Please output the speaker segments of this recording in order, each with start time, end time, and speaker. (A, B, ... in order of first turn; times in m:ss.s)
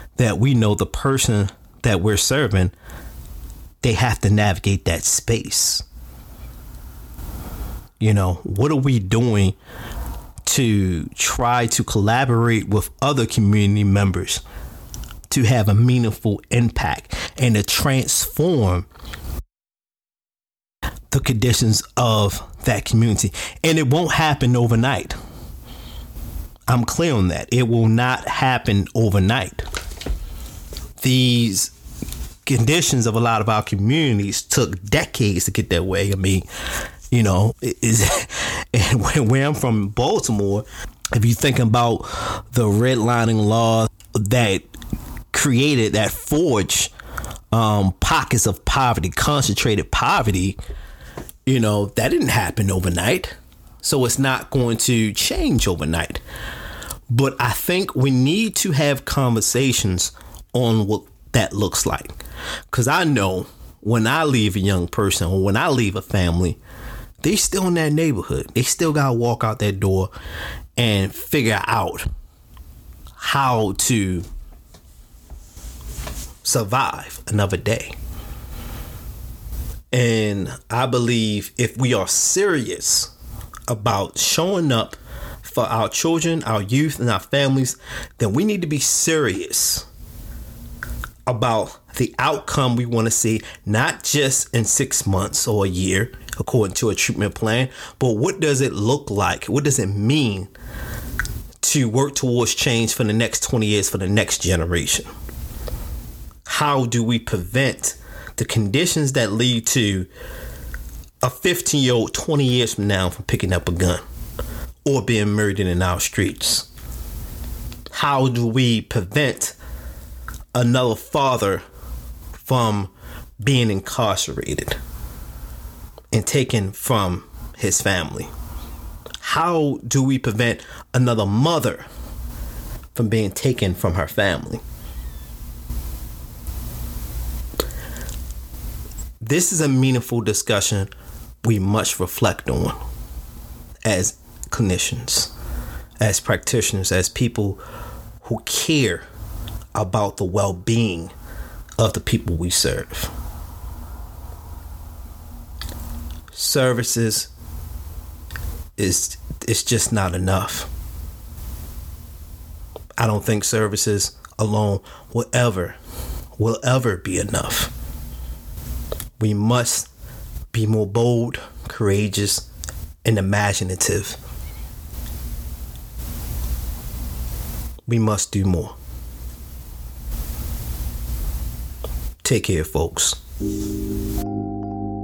0:00.2-0:02.7 A
0:03.8-0:05.8 A
0:08.0-0:09.6 A
0:10.4-0:14.4 A
0:15.3-0:18.9 A
0:21.1-0:25.2 A
0:26.7-0:29.6 A
0:31.0-0:31.7 A
0:32.4-0:36.5 A
0:37.1-0:44.7 A
0:45.3-0:46.9 A
0:47.5-0:50.6 A
0:51.5-0:56.2 A
0:57.1-1:02.2 A
1:02.7-1:06.6 A
1:07.2-1:10.1 A
1:10.8-1:12.1 A
1:13.2-1:14.3 A
1:16.4-1:18.0 A
1:19.9-1:23.1 A
1:23.7-1:29.9 A
1:31.3-1:40.5 A
1:41.6-1:45.1 A
1:46.5-1:50.1 A
1:51.2-1:54.0 A
1:54.8-1:56.7 A
1:57.9-1:59.6 A
2:00.5-2:01.6 A
2:02.4-2:04.8 A
2:06.1-2:08.3 A
2:09.2-2:11.9 A
2:13.0-2:14.6 A
2:19.2-2:20.9 A
2:21.4-2:22.8 A
2:23.8-2:25.3 A
2:26.0-2:27.6 A
2:28.2-2:29.0 A
2:29.8-2:31.1 A
2:31.8-2:33.1 A
2:36.3-2:37.3 A
2:38.8-2:40.7 A
2:43.0-2:45.8 A
2:46.4-2:47.7 A
2:49.2-2:49.9 A
2:50.5-2:52.5 A
2:53.0-2:54.2 A
2:57.9-2:58.8 A
3:02.2-3:03.2 A